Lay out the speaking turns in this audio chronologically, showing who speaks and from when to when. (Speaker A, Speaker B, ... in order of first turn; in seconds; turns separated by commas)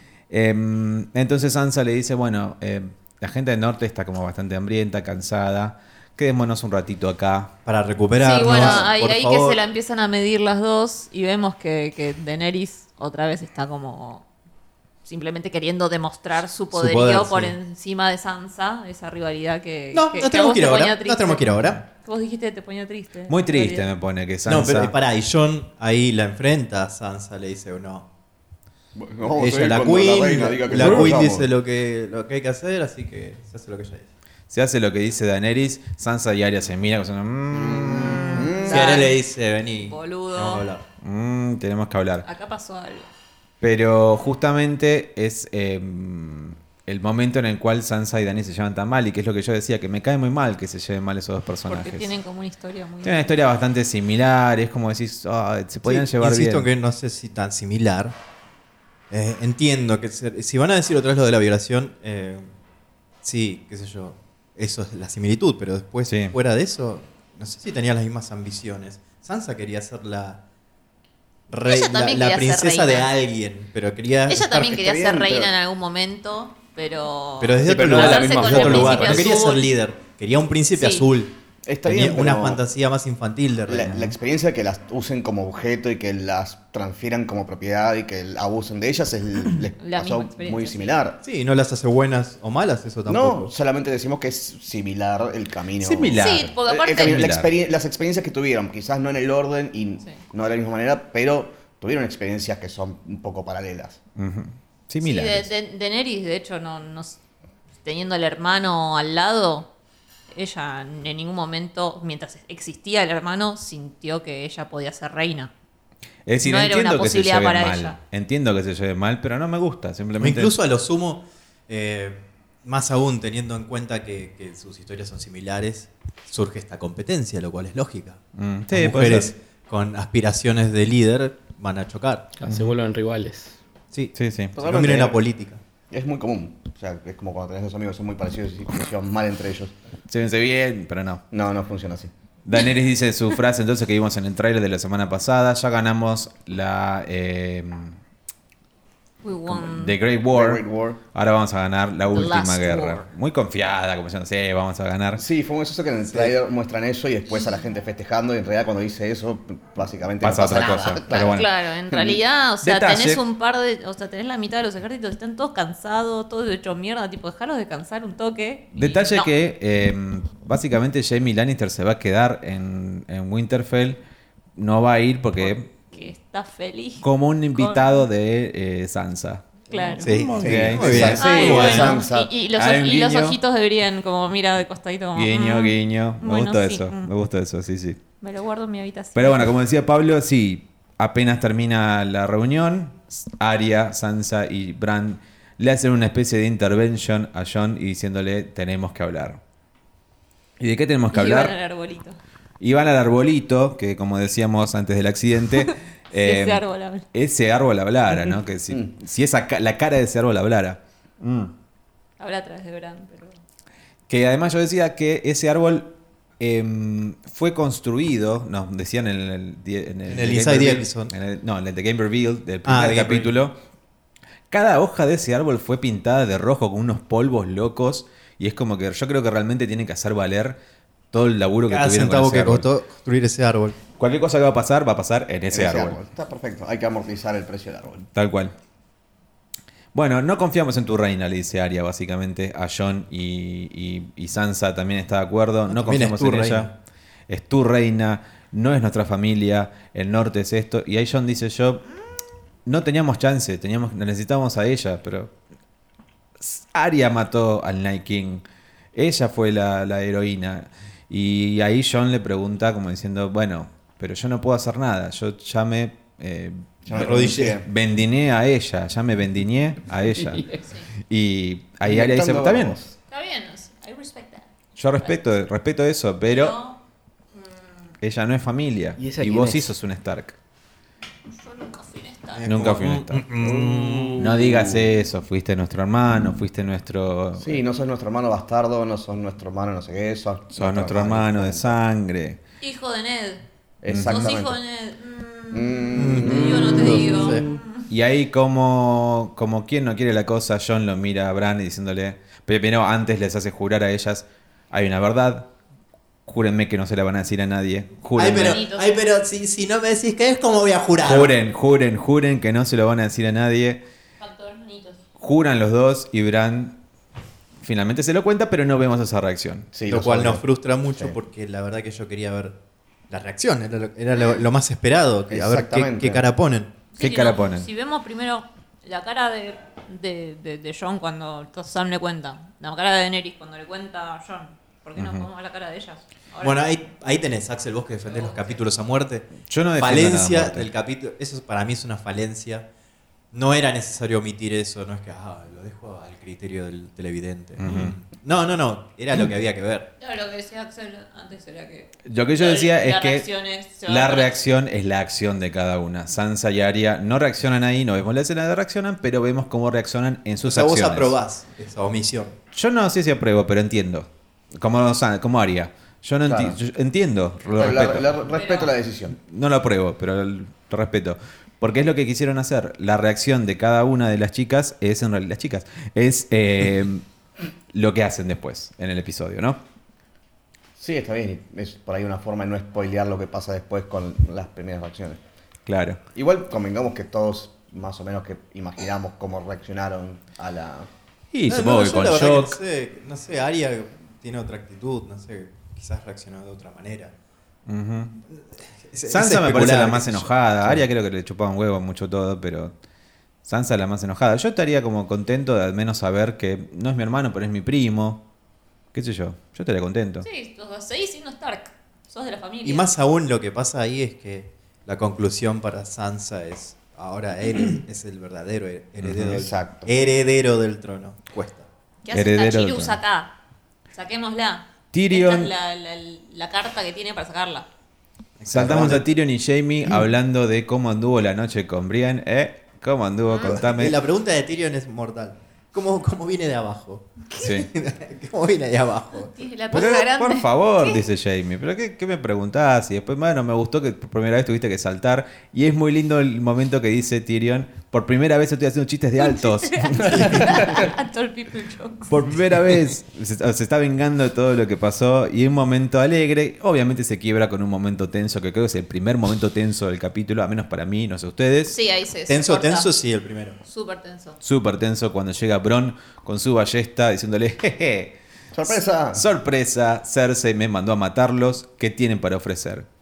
Speaker A: 0.3-7.5, Speaker B: 7.7-9.6, Speaker C: 8.2-14.2, Speaker C: 15.0-23.9, Speaker B: 16.7-17.6, Speaker B: 19.9-21.8, Speaker A: 23.3-24.9, Speaker B: 24.4-28.1, Speaker D: 28.9-31.5, Speaker B: 29.3-34.1, Speaker A: 30.7-31.2, Speaker A: 34.5-38.6, Speaker D: 37.5-39.0, Speaker C: 38.6-39.2, Speaker B: 38.6-40.8, Speaker C: 39.8-40.6, Speaker A: 41.0-42.2, Speaker C: 42.2-43.1, Speaker A: 43.6-52.1, Speaker C: 51.7-53.4, Speaker A: 53.0-56.7, Speaker B: 55.8-58.1, Speaker B: 59.1-62.5, Speaker B: 63.2-70.4, Speaker A: 66.1-66.3, Speaker B: 71.5-74.8, Speaker C: 71.7-73.1, Speaker C: 74.3-79.7, Speaker D: 74.7-75.5, Speaker B: 77.4-84.2, Speaker E: 77.7-79.3, Speaker C: 80.7-81.1, Speaker D: 81.7-82.6, Speaker D: 83.7-91.2, Speaker C: 89.8-91.0, Speaker B: 91.2-93.5, Speaker D: 93.1-104.0, Speaker A: 95.8-97.5, Speaker C: 96.2-97.2, Speaker A: 104.2-105.5, Speaker C: 105.0-107.2, Speaker C: 107.8-109.7, Speaker C: 110.3-115.5, Speaker A: 116.2-120.5, Speaker C: 116.4-118.0, Speaker B: 120.2-128.2, Speaker A: 128.3-129.3, Speaker B: 128.7-132.3, Speaker E: 132.4-133.6, Speaker B: 133.9-135.6, Speaker A: 134.1-134.6, Speaker D: 134.6-135.2, Speaker D: 135.9-139.7, Speaker A: 140.1-141.2, Speaker D: 141.3-142.1, Speaker A: 142.4-148.0, Speaker C: 149.2-149.9, Speaker A: 149.5-155.2, Speaker D: 150.3-151.0, Speaker C: 152.1-153.0, Speaker D: 155.2-161.3, Speaker A: 160.2-161.5, Speaker C: 161.1-169.3, Speaker A: 162.6-163.2, Speaker A: 168.8-174.0, Speaker A: 174.6-175.7, Speaker C: 175.4-178.0, Speaker A: 177.0-182.0, Speaker C: 179.7-180.1, Speaker B: 180.0-182.0, Speaker D: 180.4-182.3, Speaker C: 181.1-187.1, Speaker A: 182.5-183.4, Speaker A: 185.1-188.0, Speaker C: 188.2-189.5, Speaker A: 189.1-199.4, Speaker A: 200.6-201.5, Speaker C: 201.1-202.2, Speaker A: 202.6-211.5, Speaker C: 205.6-207.0, Speaker D: 208.1-208.9, Speaker C: 212.2-213.4, Speaker A: 214.1-223.6, Speaker B: 220.1-221.1, Speaker B: 222.6-223.3, Speaker A: 224.5-230.6, Speaker A: 231.1-232.7, Speaker B: 231.7-233.8, Speaker A: 234.0-236.0, Speaker D: 235.5-238.1, Speaker A: 238.1-238.5, Speaker A: 239.9-246.7, Speaker B: 245.7-246.7, Speaker A: 247.3-251.8, Speaker A: 252.7-255.3, Speaker A: 256.4-258.4, Speaker A: 258.9-270.5, Speaker D: 266.9-267.6, Speaker B: 266.9-267.6, Speaker E: 270.3-270.6, Speaker A: 271.1-272.8, Speaker D: 271.8-272.9, Speaker C: 273.1-275.2, Speaker A: 274.8-276.6, Speaker C: 276.2-276.8, Speaker C: 277.4-277.9, Speaker A: 278.0-280.4, Speaker E: 279.0-279.7, Speaker C: 281.4-282.5, Speaker B: 282.3-284.3, Speaker A: 282.4-283.2, Speaker D: 283.4-284.8, Speaker E: 283.5-284.1, Speaker A: 284.2-287.6, Speaker D: 287.4-291.8, Speaker A: 290.5-292.4, Speaker C: 292.6-293.4, Speaker D: 293.8-294.6, Speaker A: 293.9-294.4, Speaker C: 294.0-297.9, Speaker D: 295.5-297.4, Speaker B: 295.9-297.4, Speaker A: 297.9-305.5, Speaker A: 306.2-308.6, Speaker B: 308.1-311.3, Speaker C: 308.3-308.9, Speaker A: 311.0-313.8, Speaker C: 314.2-315.0, Speaker A: 315.2-316.8, Speaker A: 317.6-319.7, Speaker D: 319.7-320.4, Speaker B: 319.9-322.6, Speaker B: 323.1-326.7, Speaker D: 325.3-326.2, Speaker C: 326.9-336.6, Speaker A: 327.0-327.7, Speaker A: 334.9-335.3, Speaker B: 336.4-342.7, Speaker C: 338.1-338.6, Speaker A: 339.5-340.7, Speaker B: 343.3-349.9, Speaker A: 347.6-347.9, Speaker C: 350.0-354.4, Speaker A: 352.1-353.3, Speaker A: 353.9-361.2, Speaker B: 360.4-362.4, Speaker A: 362.5-368.1, Speaker D: 366.3-366.6, Speaker D: 367.5-369.1, Speaker C: 368.3-368.7, Speaker A: 369.2-377.0, Speaker A: 377.7-379.6, Speaker D: 380.8-385.2, Speaker A: 385.6-386.0, Speaker D: 386.1-390.9, Speaker A: 391.3-392.6, Speaker B: 391.5-397.1, Speaker A: 397.7-398.1, Speaker B: 398.3-400.8, Speaker A: 399.1-402.7, Speaker A: 403.4-408.2, Speaker A: 408.9-410.2, Speaker C: 410.2-412.9, Speaker B: 412.6-421.7, Speaker A: 419.0-419.4, Speaker D: 419.3-419.9, Speaker C: 422.0-423.3, Speaker A: 422.1-423.0, Speaker C: 423.9-427.7, Speaker A: 424.9-425.5, Speaker B: 428.4-429.1, Speaker A: 428.5-434.0, Speaker D: 428.6-429.0, Speaker C: 433.3-433.6, Speaker B: 433.4-439.3, Speaker A: 437.4-437.7, Speaker C: 439.3-441.0, Speaker A: 439.7-450.8, Speaker C: 449.2-452.3, Speaker D: 450.1-450.9, Speaker A: 452.1-461.8, Speaker C: 461.7-462.9, Speaker B: 462.3-463.6, Speaker C: 463.6-464.4, Speaker A: 464.4-472.9, Speaker D: 468.5-469.2